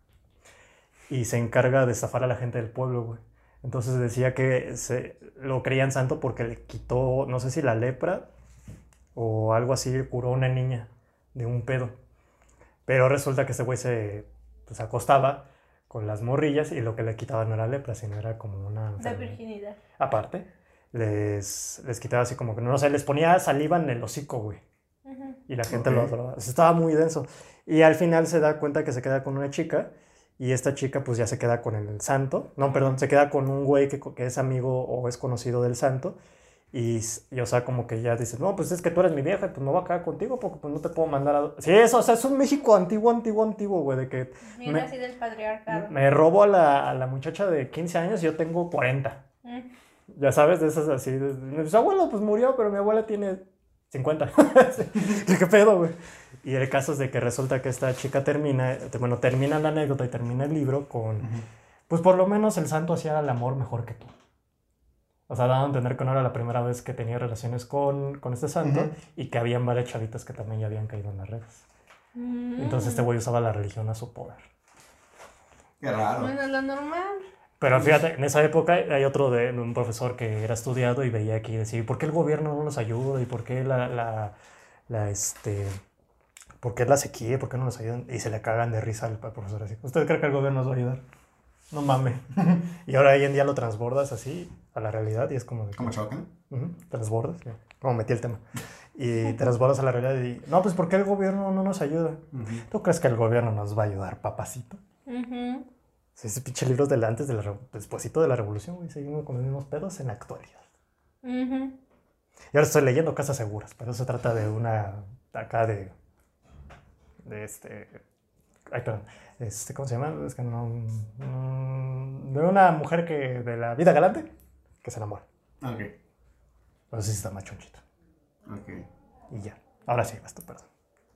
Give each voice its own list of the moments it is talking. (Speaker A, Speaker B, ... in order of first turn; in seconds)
Speaker A: 1.1-8.3, 9.2-12.0, 12.9-19.4, 20.0-24.6, 25.5-36.2, 36.7-44.9, 45.7-49.2, 50.1-61.3, 61.9-64.1, 65.3-71.6, 72.6-74.5, 77.6-84.3, 84.9-85.7, 86.6-91.0, 91.7-96.0, 96.5-98.4, 99.0-104.8, 106.2-110.6, 112.5-115.9, 117.2-118.0, 118.7-124.3, 124.8-125.2, 126.9-127.8, 129.3-130.7
Speaker B: 19.0-19.8, 25.1-25.4, 44.5-46.0, 49.4-49.7, 72.2-73.1, 76.2-77.2, 105.1-105.7, 111.2-111.8
Speaker C: 25.7-26.1, 68.6-68.9, 75.8-76.3, 77.7-78.0, 95.8-96.3, 102.3-102.7, 125.6-125.9, 128.5-128.9